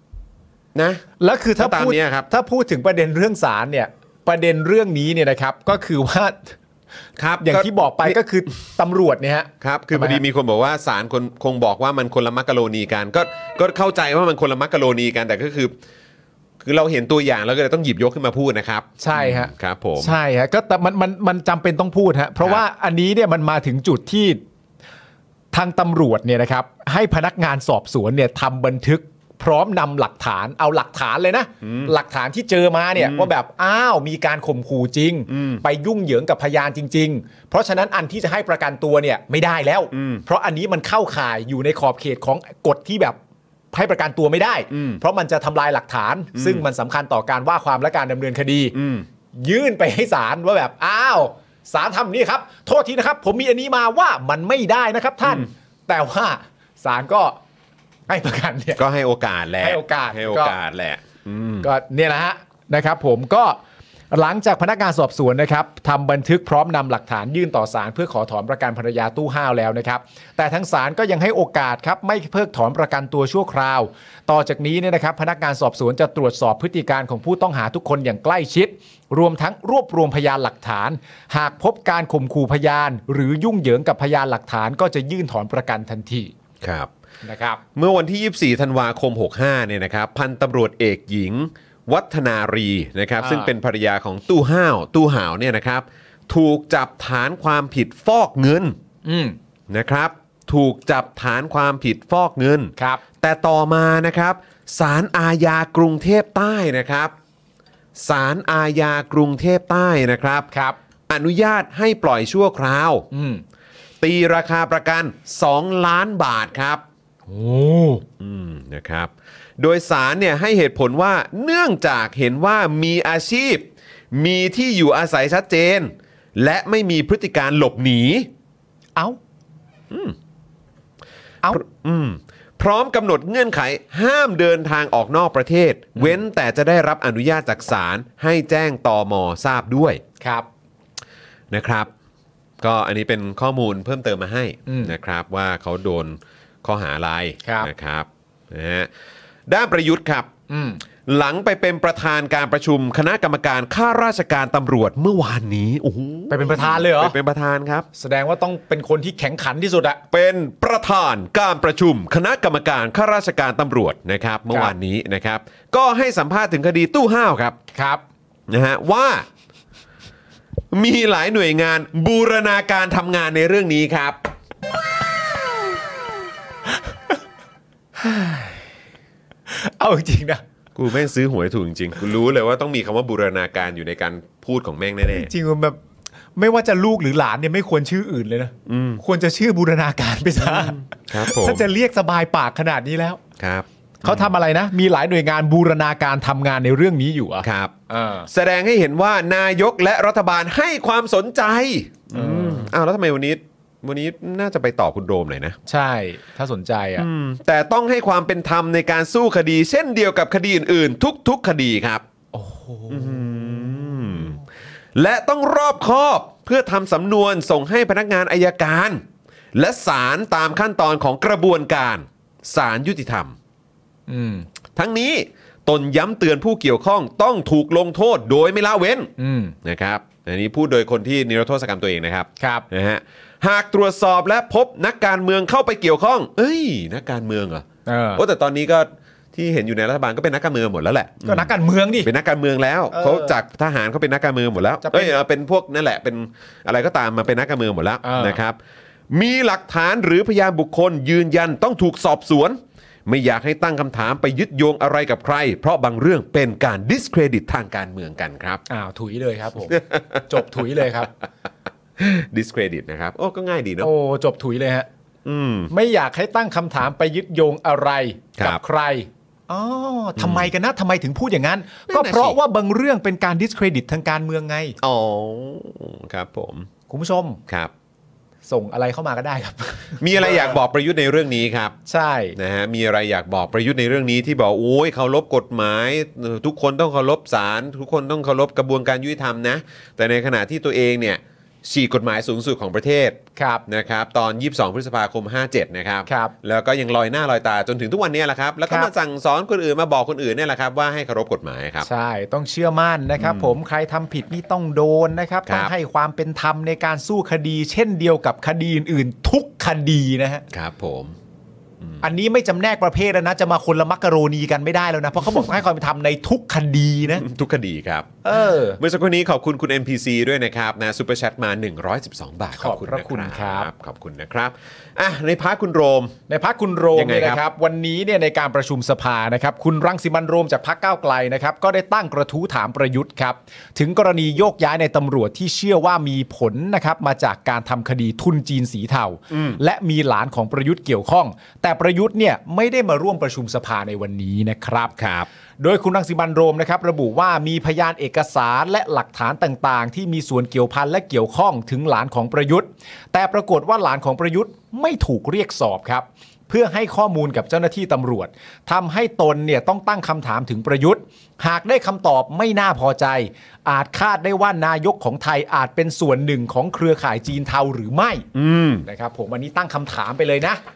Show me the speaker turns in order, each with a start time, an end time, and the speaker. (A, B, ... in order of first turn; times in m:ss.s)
0:00.7-0:01.0 A
0:01.2-0:06.6 B
0:01.6-0:02.3 A
0:07.2-0:08.2 A
0:07.4-0:10.2 B
0:09.6-0:15.7 A
0:16.6-0:20.1 A
0:19.0-0:24.4 B
0:25.5-0:43.2 B
0:31.6-0:31.9 A
0:33.0-0:33.3 A
0:35.3-0:35.6 A
0:39.9-0:40.2 A
0:43.7-0:48.7 B
0:44.7-0:45.0 A
0:46.3-0:46.6 A
0:48.7-0:49.1 A
0:49.4-0:57.4 B
0:58.1-0:58.8 B
0:58.8-1:01.7 A
0:59.6-1:00.5 B
1:01.6-1:03.6 B
1:04.1-1:26.3 B
1:26.6-1:26.9 A
1:27.2-1:27.6 B
1:27.7-1:38.8 A
1:33.2-1:33.5 B
1:39.0-1:39.4 B
1:39.7-1:47.1 A
1:42.8-1:43.0 B
1:48.0-1:50.5 A
1:50.5-1:50.8 B
1:51.1-1:53.0 A
1:53.1-1:53.4 B
1:54.0-1:56.8 A
1:57.3-1:58.0 B
1:58.2-2:08.3 A
2:09.9-2:10.2 A
2:11.5-2:20.0 A
2:20.2-2:20.5 B
2:21.5-2:21.9 A
2:22.6-2:28.9 A
2:24.7-2:24.9 B
2:27.4-2:27.7 B
2:29.5-2:30.3 A
2:30.5-2:30.8 B
2:31.0-2:37.9 A
2:36.3-2:37.2 B
2:38.0-2:40.0 B
2:40.1-2:47.6 A
2:47.7-2:48.0 B
2:48.5-2:49.3 A
2:50.7-2:54.2 A
2:58.0-2:58.6 B
2:59.5-3:00.4 B
3:00.7-3:05.3 A
3:05.1-3:05.8 B
3:06.4-3:13.2 B
3:08.6-3:09.0 A
3:10.4-3:11.6 A
3:13.4-3:14.3 A
3:14.0-3:18.3 B
3:17.4-3:17.7 A
3:18.3-3:25.6 A
3:22.1-3:22.7 B
3:25.6-3:27.0 B
3:27.0-3:32.0 A
3:32.3-3:34.4 B
3:32.9-3:34.4 A
3:34.9-3:43.4 A
3:44.1-3:44.4 B
3:44.7-3:49.1 A
3:49.2-3:49.5 B
3:49.6-4:08.6 A
3:52.4-3:52.6 B
3:57.8-3:58.2 B
4:01.2-4:02.1 B
4:02.9-4:03.3 B
4:04.8-4:05.1 B
4:08.0-4:08.4 B
4:09.1-4:18.6 A
4:18.7-4:21.1 B
4:19.7-4:20.6 A
4:22.0-4:23.9 A
4:23.8-4:24.9 B
4:25.2-4:25.7 A
4:25.7-4:34.8 B
4:30.2-4:30.5 A
4:31.9-4:32.4 A
4:34.8-4:36.7 A
4:36.9-4:37.4 B
4:38.5-4:40.6 B
4:40.0-4:41.7 A
4:41.9-4:42.4 B
4:42.4-5:01.9 A
4:53.4-4:53.6 B
4:56.1-4:56.3 B
5:01.8-5:10.4 B
5:03.2-5:03.6 A
5:05.5-5:05.7 A
5:10.5-5:11.2 A
5:12.0-5:17.2 B
5:17.1-5:18.2 A
5:18.2-5:18.8 B
5:18.8-5:26.1 A
5:22.6-5:23.7 B
5:26.3-5:44.9 B
5:26.9-5:27.4 A
5:39.3-5:39.6 A
5:45.0-5:45.3 A
5:45.6-6:08.3 B
6:08.3-6:08.9 A
6:08.8-6:10.6 B